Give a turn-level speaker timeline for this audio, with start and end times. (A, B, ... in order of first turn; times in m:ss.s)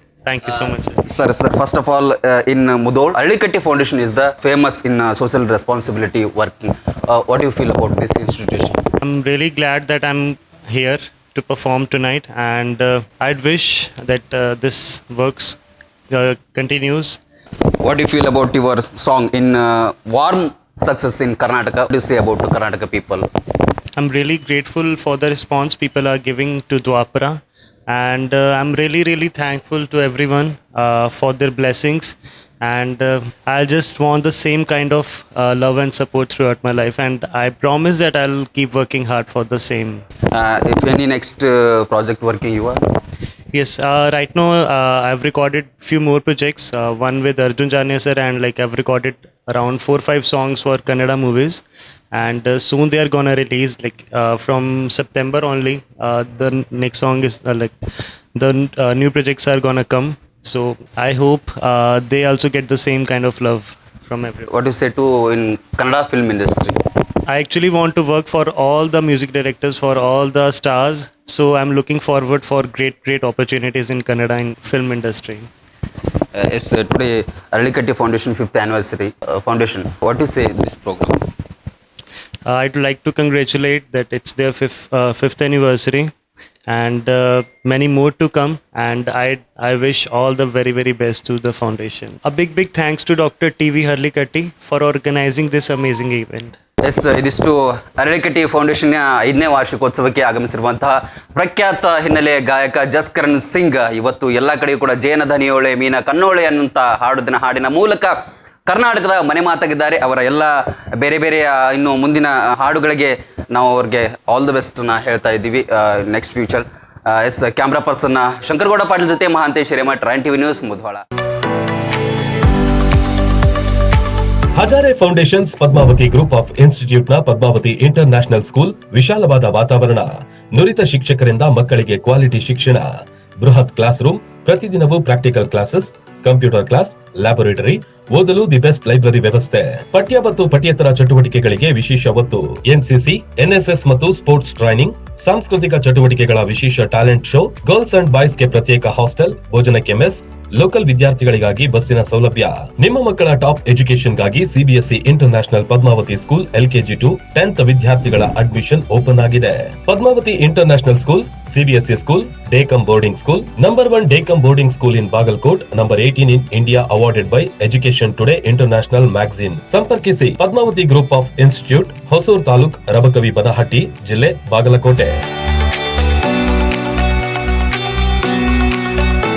0:00.2-0:01.0 A
0:00.4-0:08.8 B
0:09.0-0:15.6 A
0:16.1-0:17.2 A
0:17.8-0:23.3 B
0:24.0-0:40.0 A
0:40.3-0:42.8 B
0:43.5-0:57.7 A
0:58.3-1:04.5 A
1:04.5-1:06.8 B
1:07.3-1:15.5 A
1:16.3-1:21.2 B
1:22.4-1:26.1 A
1:26.7-1:36.6 A
1:36.8-1:48.1 B
1:48.6-2:01.0 B
2:04.6-2:12.8 C
2:13.4-2:55.2 C